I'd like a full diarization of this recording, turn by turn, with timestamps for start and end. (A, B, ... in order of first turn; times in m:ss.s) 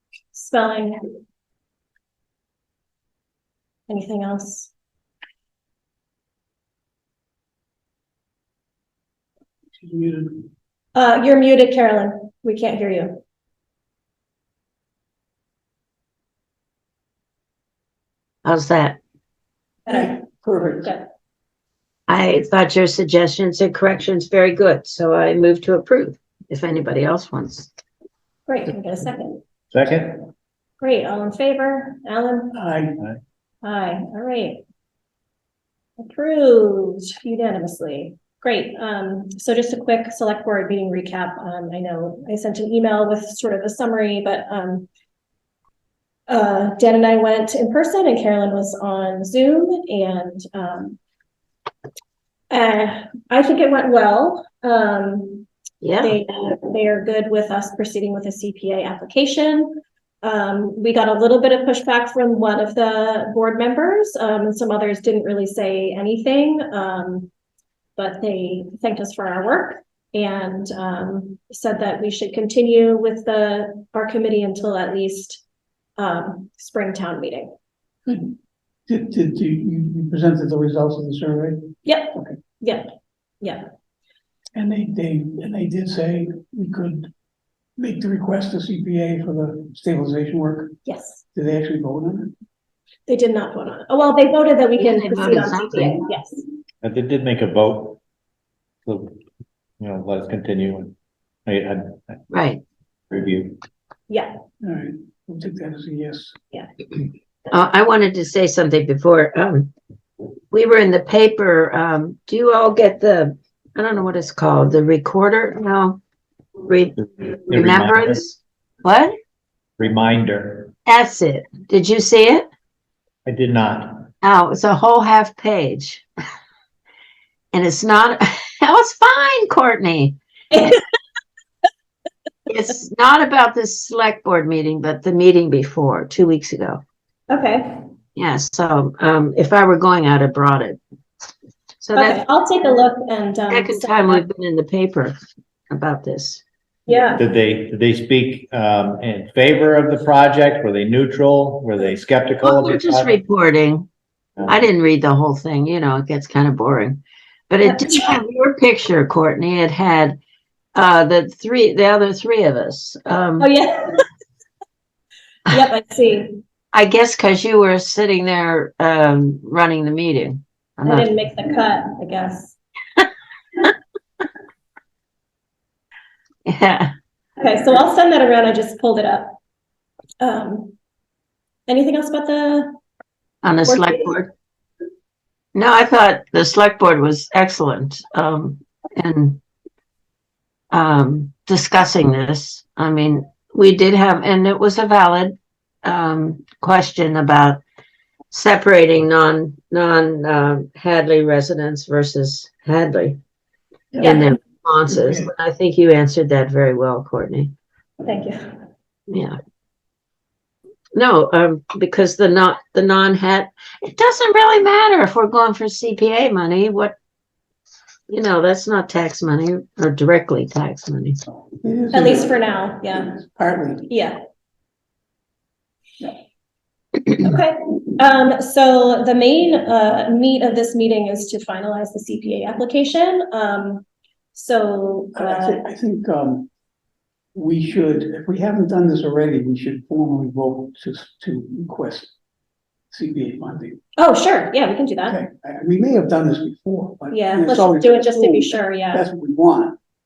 0:00.3-0:01.1 A
0:03.9-0:04.7 A
0:09.8-0:10.5 B
0:11.0-0:13.2 A
0:18.4-0:19.0 C
0:19.9-0:20.9 B
0:19.9-0:20.1 A
0:22.1-0:27.7 C
0:28.5-0:29.4 A
0:29.7-0:30.3 D
0:30.8-0:32.6 A
0:32.5-0:33.0 B
0:33.6-0:34.6 A
0:36.0-0:44.9 A
0:46.3-0:51.0 A
0:52.5-0:55.5 A
0:55.8-0:56.2 C
0:56.0-1:07.3 A
1:08.0-1:15.4 A
1:16.0-1:17.5 A
1:18.1-1:18.4 B
1:18.9-1:22.3 B
1:21.8-1:22.9 A
1:23.4-1:23.7 A
1:24.6-1:27.1 B
1:27.8-1:30.8 B
1:30.8-1:31.2 A
1:31.3-1:32.3 B
1:33.1-1:36.4 A
1:34.8-1:36.0 C
1:36.8-1:38.0 D
1:38.8-1:39.2 D
1:39.8-1:41.0 D
1:41.5-1:42.2 D
1:42.3-1:42.6 C
1:43.1-1:43.6 D
1:44.1-1:44.3 A
1:44.6-1:46.4 B
1:47.5-1:49.7 C
1:50.5-1:56.0 C
1:56.6-1:59.2 C
1:57.2-1:58.3 D
1:59.8-2:00.7 D
2:00.9-2:02.5 C
2:03.3-2:04.1 D
2:04.2-2:06.0 C
2:07.5-2:10.8 C
2:10.5-2:10.8 A
2:12.5-2:16.8 C
2:17.3-2:17.8 A
2:18.2-2:20.8 C
2:21.8-2:22.2 C
2:22.0-2:24.3 A
2:23.5-2:25.2 C
2:25.7-2:26.4 C
2:26.9-2:27.2 A
2:27.2-2:33.2 D
2:32.4-2:33.9 C
2:34.5-2:40.2 C
2:37.7-2:38.2 A
2:40.8-2:43.5 C
2:43.4-2:44.0 A
2:45.5-2:46.4 A
2:46.7-2:51.1 C
2:50.8-2:52.6 A
2:56.4-2:56.9 C
2:57.4-2:59.4 A
3:00.2-3:00.8 A
3:01.7-3:02.8 A
3:03.4-3:04.3 C
3:03.7-3:04.1 A
3:05.5-3:09.4 C
3:10.7-3:17.6 C
3:18.3-3:23.2 C
3:24.0-3:27.5 C
3:24.0-3:24.3 A
3:24.9-3:25.3 B
3:28.0-3:28.5 A
3:29.1-3:29.4 C
3:30.9-3:37.0 C
3:38.1-3:41.2 C
3:41.6-3:43.9 B
3:41.9-3:43.1 A
3:43.9-3:44.2 A
3:47.2-3:55.6 A
3:55.2-3:56.5 B
3:57.4-4:02.1 B
4:02.9-4:03.8 B
4:04.0-4:05.2 A
4:05.0-4:09.8 B
4:07.1-4:09.0 A